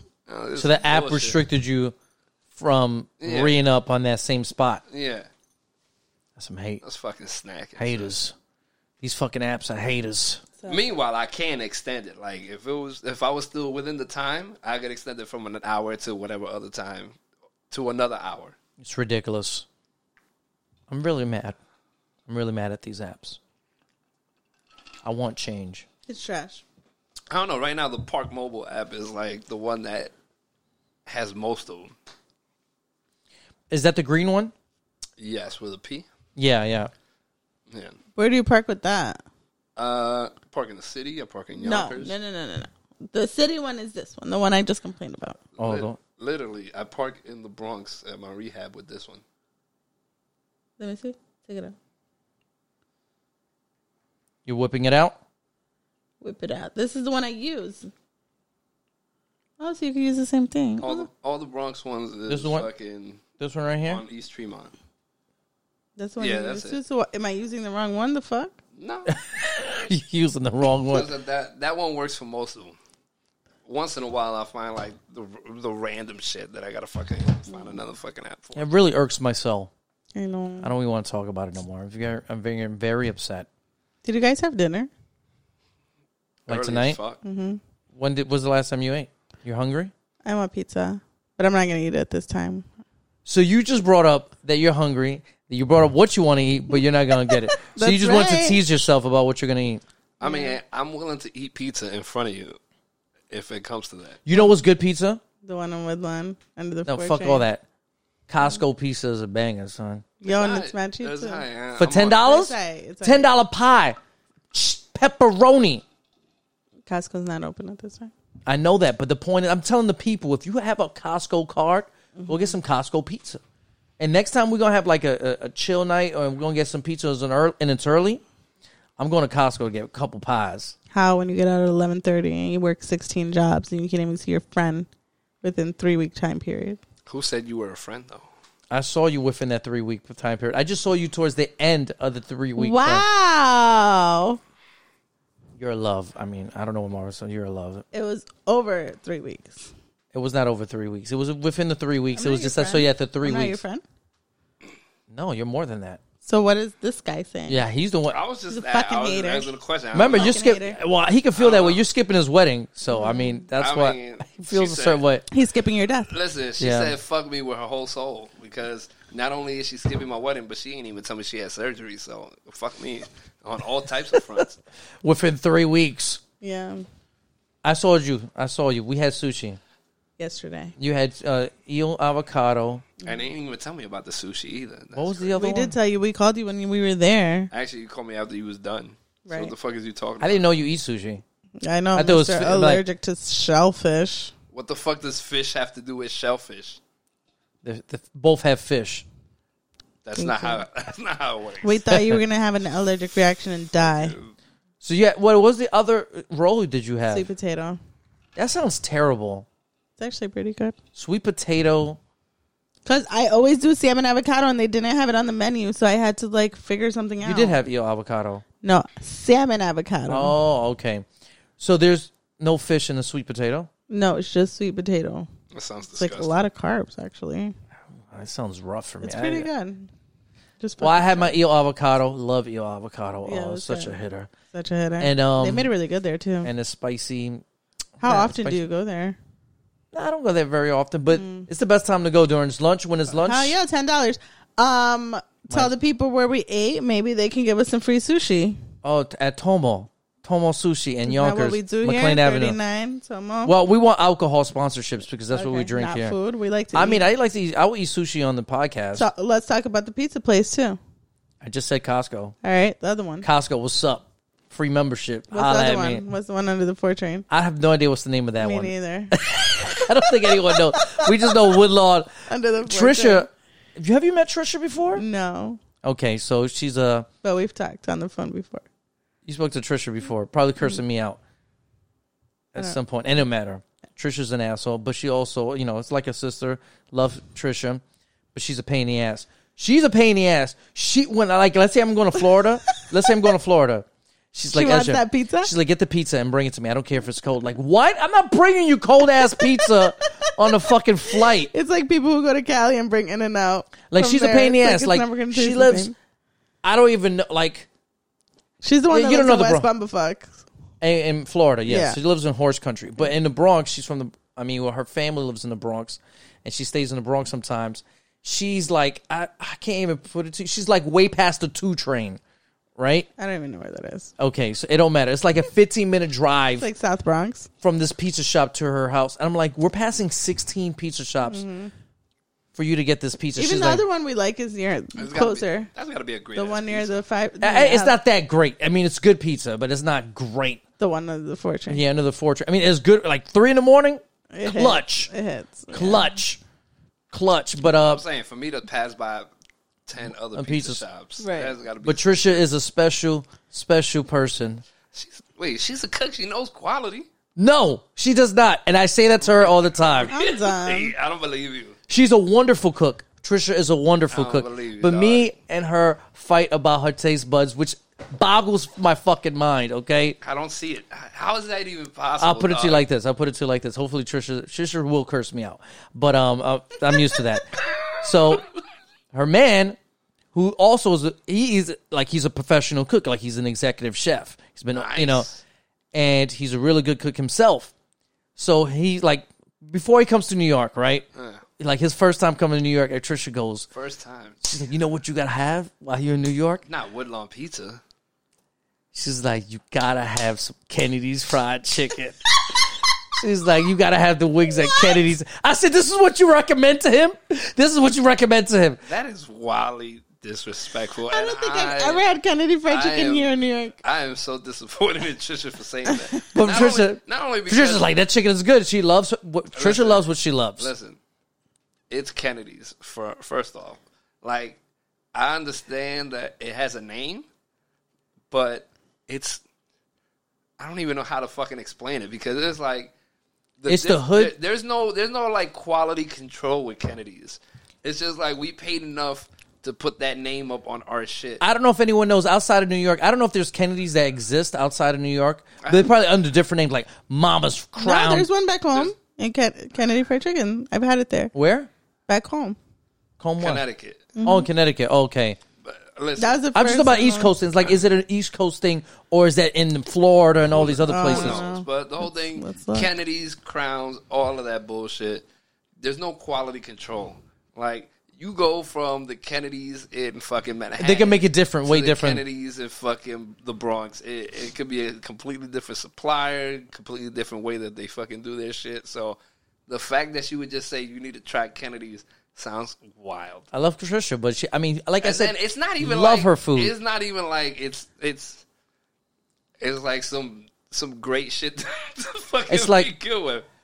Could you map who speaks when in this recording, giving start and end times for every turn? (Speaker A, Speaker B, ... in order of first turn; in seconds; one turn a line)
Speaker A: 0.3-1.4
Speaker B: 0.6-1.9
Speaker B: 2.5-4.8
Speaker A: 3.2-3.6
Speaker A: 4.9-5.3
Speaker B: 6.3-6.8
Speaker A: 6.8-8.1
Speaker B: 7.8-8.3
Speaker B: 9.0-10.4
Speaker C: 10.6-10.9
Speaker A: 10.7-17.1
Speaker A: 17.7-18.6
Speaker B: 18.8-19.6
Speaker B: 20.9-21.6
Speaker B: 22.3-23.4
Speaker B: 25.0-25.9
Speaker C: 26.1-26.6
Speaker A: 27.3-30.1
Speaker A: 31.1-31.9
Speaker B: 33.7-34.5
Speaker A: 35.2-36.0
Speaker B: 36.4-36.9
Speaker A: 37.7-38.0
Speaker C: 38.1-39.2
Speaker A: 39.8-42.1
Speaker C: 41.6-45.4
Speaker A: 45.6-49.2
Speaker B: 45.6-46.0
Speaker C: 50.8-51.7
Speaker B: 54.4-55.1
Speaker C: 56.2-57.9
Speaker C: 59.6-61.1
Speaker A: 60.8-63.2
Speaker B: 62.3-62.7
Speaker B: 63.4-64.0
Speaker A: 63.8-64.7
Speaker C: 66.0-68.6
Speaker A: 66.2-66.8
Speaker A: 68.8-69.1
Speaker B: 69.1-71.1
Speaker A: 70.9-72.8
Speaker A: 73.7-78.7
Speaker B: 78.5-79.7
Speaker C: 80.1-80.7
Speaker B: 80.6-83.5
Speaker C: 84.0-84.9
Speaker B: 86.5-87.0
Speaker A: 86.5-87.2
Speaker C: 87.2-87.6
Speaker B: 87.9-89.9
Speaker C: 90.2-92.6
Speaker B: 93.2-99.8
Speaker C: 97.5-98.6
Speaker A: 100.2-102.6
Speaker C: 100.2-100.6
Speaker A: 103.3-104.2
Speaker B: 104.2-105.2
Speaker C: 105.4-107.4
Speaker B: 106.9-107.6
Speaker B: 108.3-110.0
Speaker C: 110.2-111.4
Speaker A: 110.2-112.3
Speaker B: 111.8-114.0
Speaker C: 112.1-113.3
Speaker B: 114.5-115.8
Speaker C: 116.9-118.1
Speaker B: 118.5-123.4
Speaker C: 122.2-122.5
Speaker B: 124.0-128.2
Speaker B: 129.0-130.7
Speaker C: 130.9-134.9
Speaker C: 135.4-136.8
Speaker A: 137.1-138.3
Speaker B: 138.7-143.0
Speaker C: 142.6-144.4
Speaker B: 145.6-147.8
Speaker C: 147.9-149.7
Speaker B: 150.1-153.6
Speaker C: 152.1-153.8
Speaker B: 155.1-156.0
Speaker C: 156.2-157.6
Speaker B: 157.5-158.2
Speaker A: 158.1-160.5
Speaker C: 158.5-159.5
Speaker B: 159.9-165.2
Speaker C: 160.0-160.8
Speaker A: 161.3-161.8
Speaker C: 162.9-163.4
Speaker A: 163.6-165.0
Speaker C: 165.3-166.1
Speaker A: 166.1-174.6
Speaker B: 166.6-166.9
Speaker B: 175.0-176.2
Speaker C: 176.4-176.8
Speaker B: 177.6-179.6
Speaker C: 180.2-180.7
Speaker B: 180.8-182.8
Speaker A: 183.0-185.3
Speaker B: 184.9-185.8
Speaker C: 185.4-187.5
Speaker A: 187.5-190.4
Speaker C: 189.2-189.5
Speaker B: 190.2-191.2
Speaker C: 191.6-194.3
Speaker B: 191.9-192.8
Speaker A: 194.5-196.8
Speaker B: 197.6-199.1
Speaker A: 200.0-201.8
Speaker C: 200.2-200.6
Speaker C: 201.6-204.1
Speaker B: 201.9-202.2
Speaker A: 203.8-204.3
Speaker B: 204.8-207.3
Speaker C: 207.1-207.8
Speaker B: 208.3-209.4
Speaker C: 210.0-210.8
Speaker B: 210.9-212.0
Speaker C: 212.8-217.6
Speaker B: 217.2-218.4
Speaker C: 218.6-220.3
Speaker B: 220.1-221.0
Speaker B: 221.6-223.7
Speaker C: 223.9-225.3
Speaker A: 225.5-226.4
Speaker C: 225.9-227.5
Speaker B: 228.1-229.5
Speaker C: 229.0-229.9
Speaker C: 230.6-231.3
Speaker B: 230.8-234.3
Speaker C: 233.2-233.9
Speaker C: 234.5-236.5
Speaker B: 235.0-235.7
Speaker B: 236.4-237.4
Speaker B: 238.0-238.6
Speaker C: 238.0-239.2
Speaker B: 239.9-243.6
Speaker C: 241.1-241.5
Speaker C: 243.1-248.6
Speaker B: 248.8-252.6
Speaker C: 251.1-253.5
Speaker B: 253.4-256.1
Speaker C: 255.3-257.0
Speaker B: 256.7-259.1
Speaker C: 258.9-260.8
Speaker B: 261.4-262.3
Speaker C: 262.4-263.3
Speaker B: 263.2-266.0
Speaker C: 265.3-267.2
Speaker B: 267.3-272.1
Speaker C: 268.4-271.6
Speaker C: 272.3-273.3
Speaker B: 272.6-275.0
Speaker C: 274.9-275.6
Speaker B: 275.8-277.1
Speaker C: 277.2-278.6
Speaker B: 279.2-281.2
Speaker B: 282.5-287.8
Speaker B: 288.3-301.5
Speaker C: 294.5-295.5
Speaker C: 299.2-300.5
Speaker C: 301.1-305.9
Speaker B: 303.9-305.9
Speaker B: 306.6-307.7
Speaker C: 308.6-310.4
Speaker B: 308.9-309.7
Speaker B: 310.8-322.2
Speaker C: 311.6-312.0
Speaker B: 322.8-323.1
Speaker C: 323.2-324.1
Speaker B: 324.2-326.7
Speaker C: 326.6-327.5
Speaker B: 327.6-331.4
Speaker C: 331.3-331.7
Speaker B: 332.5-333.8
Speaker C: 333.4-335.7
Speaker A: 335.0-337.0
Speaker C: 336.3-337.9
Speaker B: 337.4-340.6
Speaker C: 340.8-341.8
Speaker B: 341.7-345.1
Speaker C: 344.3-346.1
Speaker B: 345.7-346.4
Speaker B: 347.1-348.0
Speaker A: 347.7-349.3
Speaker A: 349.9-352.2
Speaker B: 350.3-350.8
Speaker C: 351.2-351.5
Speaker B: 351.8-354.6
Speaker A: 354.9-357.1
Speaker B: 357.4-360.1
Speaker A: 359.2-361.8
Speaker C: 360.1-360.9
Speaker B: 361.9-370.2
Speaker A: 364.1-365.3
Speaker A: 370.2-372.8
Speaker B: 372.2-378.5
Speaker B: 379.1-379.8
Speaker B: 380.3-385.3
Speaker A: 384.7-385.4
Speaker B: 385.9-387.7
Speaker B: 388.4-391.1
Speaker A: 391.1-391.4
Speaker B: 391.6-393.7
Speaker A: 393.7-394.4
Speaker B: 394.4-396.6
Speaker A: 396.7-397.8
Speaker B: 398.9-408.8
Speaker C: 404.6-405.0
Speaker A: 408.9-412.0
Speaker C: 411.1-413.8
Speaker A: 412.7-417.9
Speaker B: 416.3-420.7
Speaker A: 419.5-420.1
Speaker A: 420.6-421.0
Speaker A: 421.9-424.6
Speaker A: 425.1-427.2
Speaker A: 428.3-429.4
Speaker A: 430.6-432.9
Speaker A: 433.6-441.4
Speaker B: 433.7-434.3
Speaker B: 441.4-448.3
Speaker A: 445.6-445.9
Speaker C: 447.8-451.3
Speaker B: 451.3-451.7
Speaker C: 452.1-452.6
Speaker B: 453.2-453.6
Speaker A: 453.4-454.1
Speaker C: 454.1-454.5
Speaker B: 454.2-455.4
Speaker A: 455.6-456.4
Speaker C: 456.2-457.3
Speaker B: 456.5-461.4
Speaker A: 460.5-465.2
Speaker C: 460.9-462.9
Speaker A: 465.8-483.5
Speaker B: 470.8-472.2
Speaker B: 483.5-486.7
Speaker A: 485.0-488.4
Speaker A: 489.6-493.4
Speaker B: 492.5-492.9